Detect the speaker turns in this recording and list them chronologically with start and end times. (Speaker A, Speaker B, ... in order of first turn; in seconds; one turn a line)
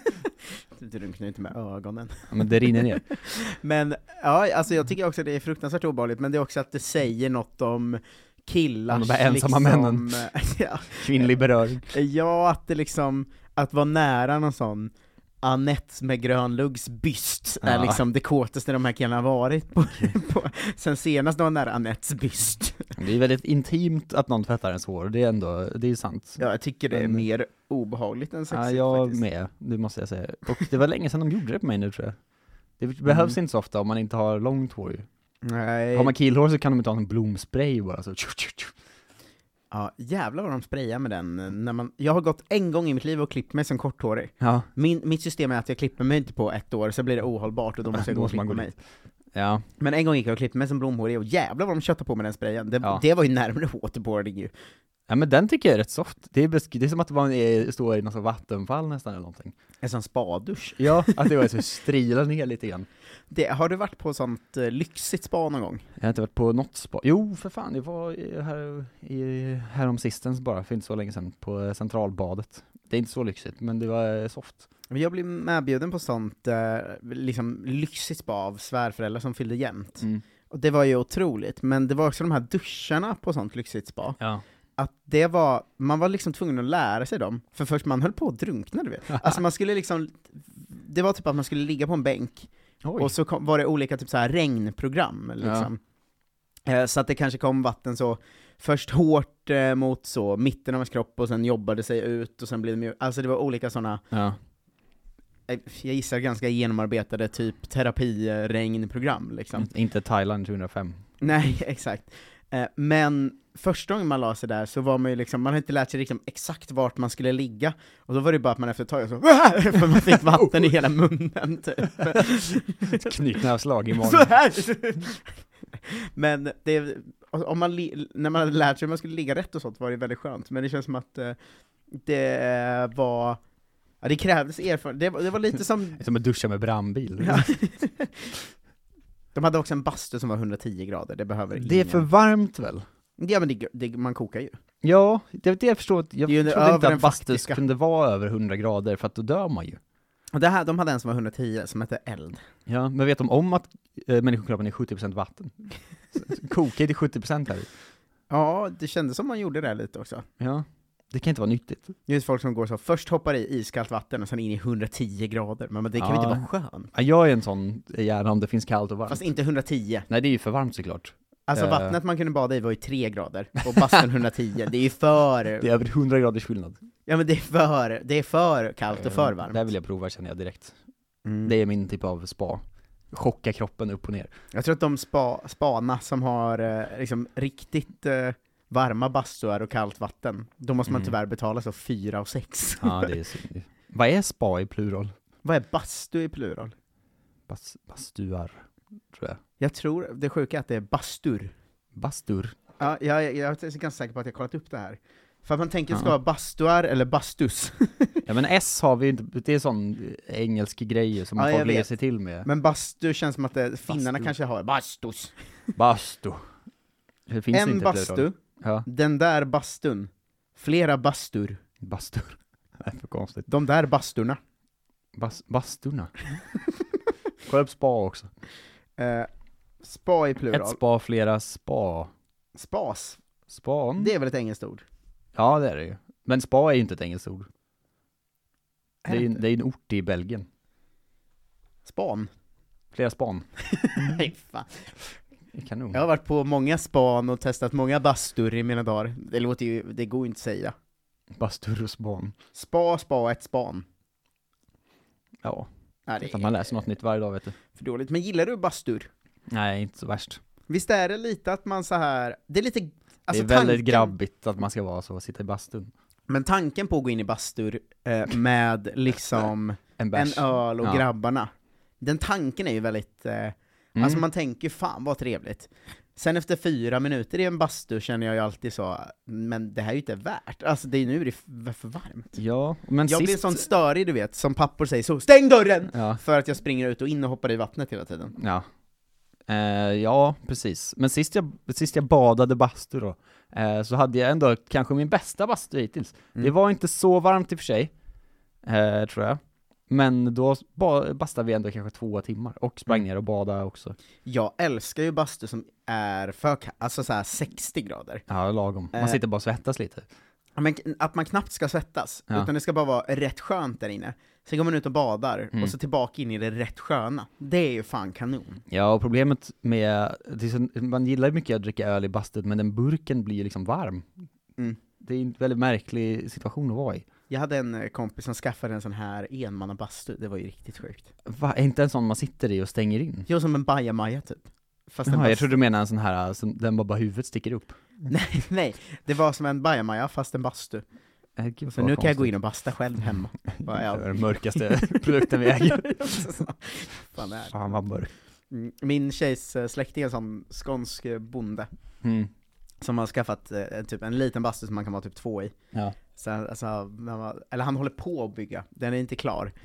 Speaker A: 0.8-22.9
Speaker B: 2.3-3.1
Speaker B: 8.9-10.2
Speaker B: 11.0-11.9
Speaker B: 17.6-18.0
Speaker B: 23.0-27.2
Speaker A: 26.4-29.2
Speaker B: 28.5-32.2
Speaker B: 32.8-35.1
Speaker A: 33.1-33.4
Speaker A: 35.4-36.1
Speaker B: 35.9-38.7
Speaker A: 39.7-48.7
Speaker B: 44.4-44.7
Speaker B: 47.9-48.7
Speaker B: 49.3-49.6
Speaker A: 49.8-54.5
Speaker B: 55.1-59.5
Speaker A: 59.8-61.2
Speaker B: 60.8-62.9
Speaker A: 63.3-65.8
Speaker B: 66.0-74.6
Speaker A: 74.9-84.2
Speaker A: 84.8-95.8
Speaker B: 92.8-93.1
Speaker B: 95.4-95.7
Speaker A: 96.7-104.0
Speaker B: 104.1-104.4
Speaker A: 105.5-109.7
Speaker B: 109.5-111.0
Speaker A: 111.2-123.1
Speaker B: 122.9-124.3
Speaker A: 124.0-131.3
Speaker A: 131.9-133.4
Speaker A: 134.0-136.0
Speaker B: 136.0-137.5
Speaker A: 137.2-138.3
Speaker A: 139.3-142.1
Speaker B: 141.5-142.8
Speaker A: 143.2-144.6
Speaker B: 144.8-149.8
Speaker A: 146.3-147.6
Speaker A: 150.3-152.4
Speaker B: 152.7-157.7
Speaker A: 158.3-160.2
Speaker B: 160.4-161.9
Speaker A: 162.1-166.9
Speaker B: 166.0-169.2
Speaker A: 169.1-170.1
Speaker B: 170.1-171.9
Speaker A: 171.5-175.7
Speaker B: 175.6-176.8
Speaker A: 177.1-179.6
Speaker B: 178.9-180.7
Speaker A: 181.2-181.5
Speaker B: 181.4-184.3
Speaker A: 184.5-193.1
Speaker B: 190.9-191.1
Speaker B: 192.8-195.1
Speaker A: 195.4-196.7
Speaker B: 197.5-199.4
Speaker A: 199.6-201.5
Speaker B: 201.9-202.5
Speaker A: 202.8-208.2
Speaker B: 208.2-212.5
Speaker A: 211.3-211.9
Speaker A: 212.4-215.3
Speaker B: 213.9-214.3
Speaker B: 215.8-216.4
Speaker B: 217.3-218.8
Speaker A: 217.5-221.6
Speaker B: 221.8-223.5
Speaker A: 223.5-224.4
Speaker B: 225.2-226.1
Speaker B: 227.4-228.3
Speaker A: 229.0-229.3
Speaker A: 229.8-230.8
Speaker B: 230.5-232.1
Speaker A: 232.6-233.2
Speaker B: 233.5-234.1
Speaker A: 234.0-234.8
Speaker B: 235.3-237.5
Speaker B: 239.1-240.4
Speaker A: 241.8-242.3
Speaker B: 242.9-243.4
Speaker A: 243.7-244.9
Speaker B: 245.5-246.0
Speaker A: 245.9-250.7
Speaker B: 251.3-252.3
Speaker A: 252.5-253.8
Speaker B: 255.4-257.6
Speaker A: 256.1-256.5
Speaker A: 257.7-259.1
Speaker B: 259.5-260.4
Speaker A: 260.7-264.1
Speaker B: 263.3-265.9
Speaker A: 266.3-271.5
Speaker B: 270.0-271.0
Speaker A: 272.0-282.4
Speaker B: 273.9-274.2
Speaker B: 282.4-283.6
Speaker A: 283.1-288.4
Speaker B: 285.9-286.2
Speaker B: 288.4-288.6
Speaker B: 289.5-297.9
Speaker B: 298.6-303.9
Speaker A: 304.2-308.2
Speaker B: 308.3-310.1
Speaker A: 308.9-309.2
Speaker A: 310.6-318.6
Speaker B: 318.7-324.1
Speaker B: 325.0-327.0
Speaker A: 327.3-331.1
Speaker B: 331.2-333.3
Speaker A: 333.3-335.5
Speaker B: 335.1-337.8
Speaker A: 338.1-340.8
Speaker B: 341.4-342.3
Speaker A: 341.7-347.5
Speaker B: 343.5-346.1
Speaker B: 347.5-348.1
Speaker A: 348.5-351.7
Speaker B: 352.0-352.3
Speaker A: 352.8-355.5
Speaker A: 356.1-359.5